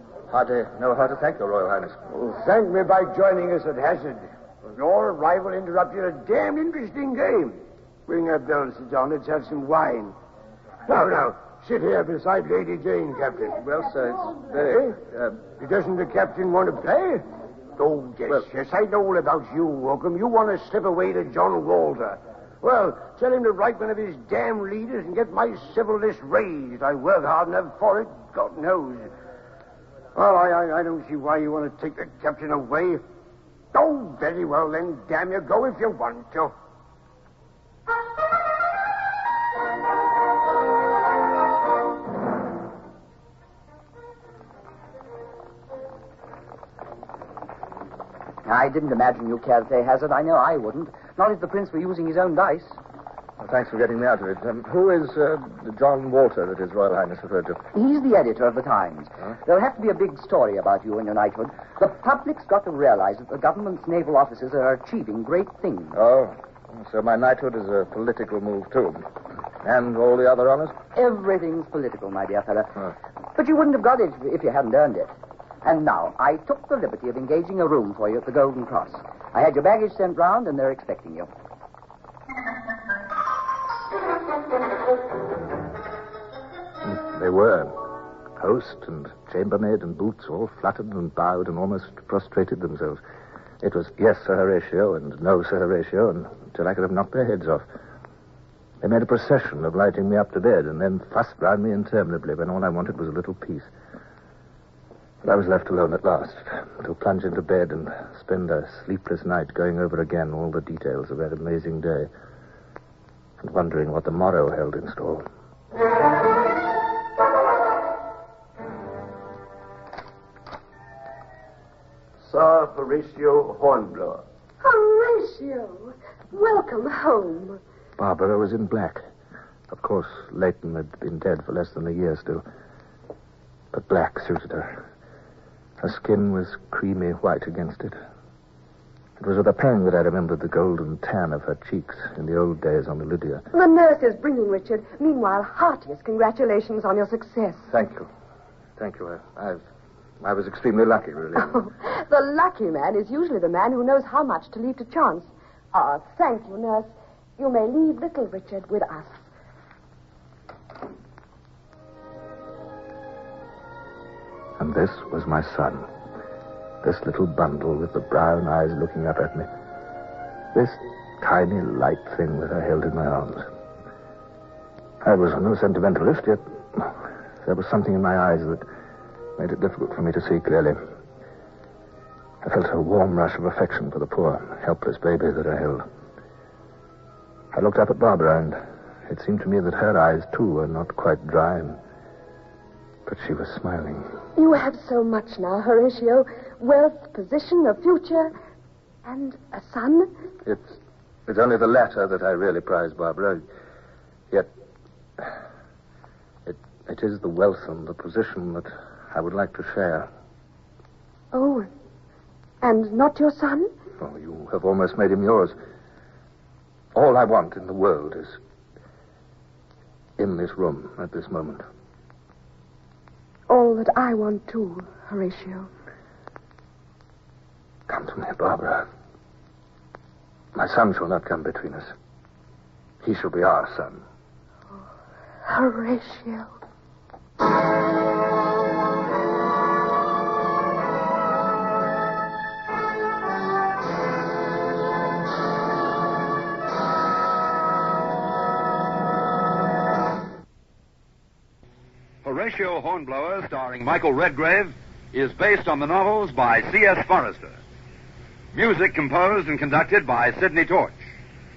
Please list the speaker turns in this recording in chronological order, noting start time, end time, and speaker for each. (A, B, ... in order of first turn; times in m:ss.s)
0:00.3-0:02.0 A
0:02.1-0:10.2 B
0:10.9-0:13.6 B
0:13.6-0:15.4 A
0:14.7-0:14.9 B
0:15.6-0:17.2 B
0:17.8-0:29.1 B
0:30.2-0:33.0 B
0:33.7-0:36.5 B
0:48.4-0:52.8 C
0:53.4-0:57.6 A
0:57.7-1:06.0 C
1:05.9-1:09.1 A
1:09.6-1:10.8 A
1:10.9-1:21.3 C
1:26.8-1:27.8 A
1:28.4-1:33.0 A
1:33.6-1:37.6 A
1:38.8-1:43.7 A
1:45.2-1:52.1 A
1:53.4-1:55.2 A
2:02.2-2:04.2 B
2:04.6-2:07.6 D
2:08.0-2:09.0 A
2:09.7-2:12.4 A
2:13.7-2:14.8 A
2:15.8-2:18.0 A
2:19.2-2:23.4 A
2:23.5-2:27.7 D
2:27.7-2:28.1 A
2:28.8-2:29.6 A
2:30.2-2:31.6 A
2:31.4-2:39.2 D
2:44.6-2:45.9 A
2:46.8-2:49.5 A
2:50.5-2:53.5 A
2:55.0-2:58.6 A
2:59.4-3:00.8 A
3:02.4-3:05.8 A
3:07.5-3:11.8 A
3:13.1-3:14.1 A
3:14.4-3:18.3 D
3:19.0-3:20.1 D
3:20.4-3:23.4 A
3:26.5-3:30.1 A
3:31.3-3:31.7 D
3:32.6-3:33.7 D
3:34.0-3:35.6 A
3:36.9-3:38.4 A
3:40.2-3:41.6 A
3:43.5-3:45.7 D
3:47.9-3:48.9 A
3:50.6-3:51.9 A
3:53.0-3:54.0 A
3:55.5-3:56.5 D
4:12.2-4:17.6 E
4:18.5-4:21.0 E